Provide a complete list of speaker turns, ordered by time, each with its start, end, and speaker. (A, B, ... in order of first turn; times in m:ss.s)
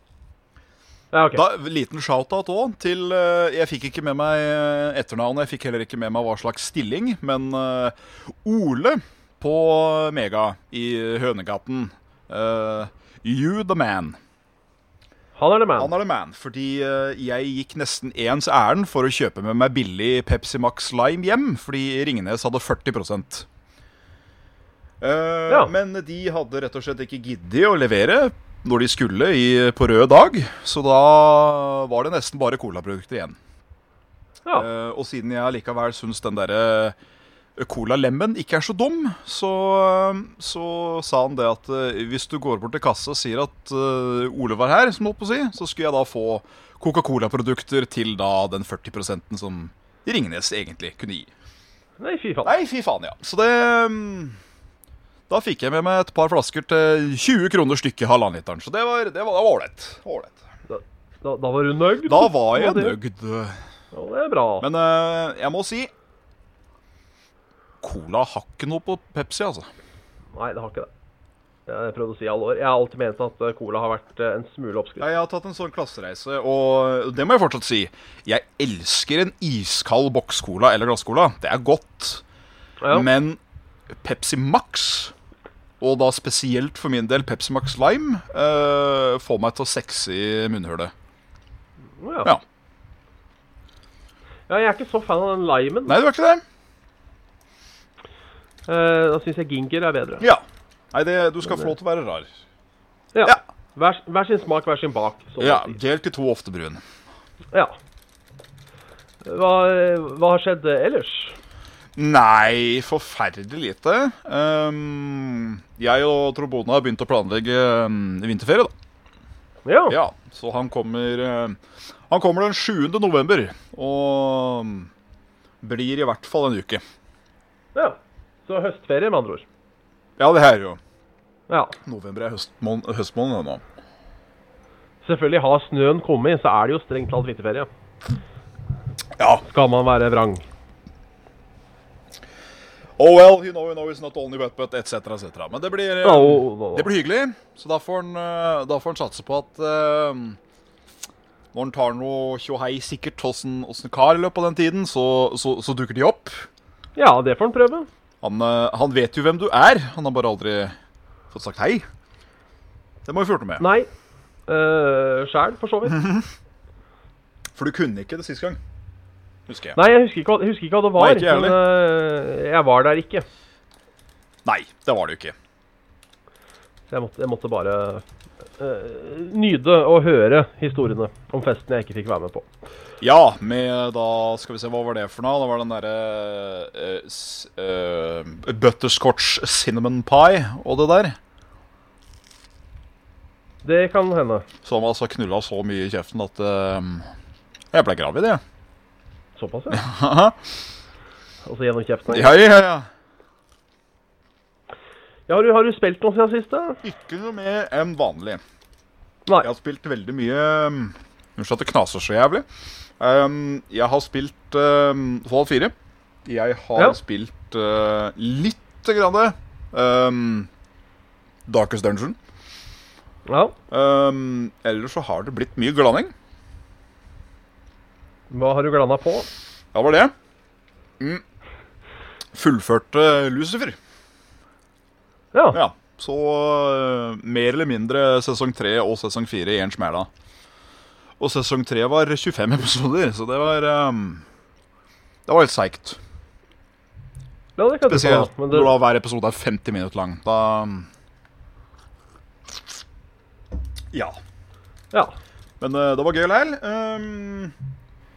0:01.1-0:01.4 A
0:01.3-0:14.2 B
0:15.4-0:15.9 A
0:15.8-0:23.5 B
0:25.0-0:33.4 B
0:34.6-0:37.0 B
0:37.6-0:51.3 B
0:52.0-0:52.5 A
0:52.4-0:54.4 B
0:55.3-1:00.4 B
1:00.7-1:03.0 A
1:02.1-1:03.6 B
1:03.9-1:04.7 A
1:04.6-1:05.9 B
1:07.8-1:09.7 B
1:10.4-1:10.9 A
1:11.7-1:15.1 A
1:15.0-1:22.2 B
1:22.8-1:23.1 A
1:22.9-1:23.4 B
1:24.0-1:25.1 B
1:25.8-1:30.9 B
1:32.0-1:32.3 A
1:34.5-1:36.0 A
1:35.9-1:36.4 B
1:38.7-1:40.2 A
1:40.2-1:42.3 B
1:43.2-1:45.8 A
1:45.4-1:46.8 B
1:49.2-1:51.4 A
1:52.0-1:58.7 B
1:59.6-2:00.0 A
1:59.9-2:04.9 B
2:05.6-2:06.8 B
2:07.8-2:09.4 A
2:10.2-2:10.8 B
2:11.5-2:11.8 A
2:11.8-2:13.6 B
2:15.0-2:17.7 A
2:19.2-2:19.4 B
2:19.4-2:20.4 A
2:23.0-2:30.4 B
2:26.0-2:26.9 A
2:31.5-2:36.5 B
2:37.0-2:37.9 A
2:38.2-2:40.8 B
2:41.3-2:41.9 B
2:43.0-2:43.6 B
2:43.6-2:43.9 A
2:44.5-2:46.0 A
2:45.9-2:46.3 B
2:47.5-2:48.6 B
2:49.5-2:49.8 B
2:49.8-2:53.3 A
2:51.0-2:51.6 B
2:54.4-2:55.4 B
2:56.9-2:58.0 A
2:58.6-3:02.5 A
3:03.0-3:11.2 B
3:13.6-3:14.5 A
3:14.6-3:17.1 B
3:17.7-3:18.4 B
3:19.4-3:19.8 A
3:19.7-3:20.5 B
3:21.4-3:22.3 A
3:22.1-3:22.9 B
3:25.3-3:26.8 A
3:26.8-3:28.4 B
3:29.4-3:32.5 B
3:33.0-3:35.7 B
3:36.3-3:40.5 B
3:41.5-3:42.2 B
3:43.3-3:43.6 A
3:43.7-3:46.1 B
3:48.3-3:49.3 A
3:49.7-3:50.1 B
3:52.3-3:53.8 B
3:55.3-3:55.6 A
3:55.5-4:00.1 B
4:01.2-4:04.2 B
4:05.3-4:06.0 B
4:07.6-4:08.7 A
4:07.9-4:10.9 B
4:15.6-4:17.5 B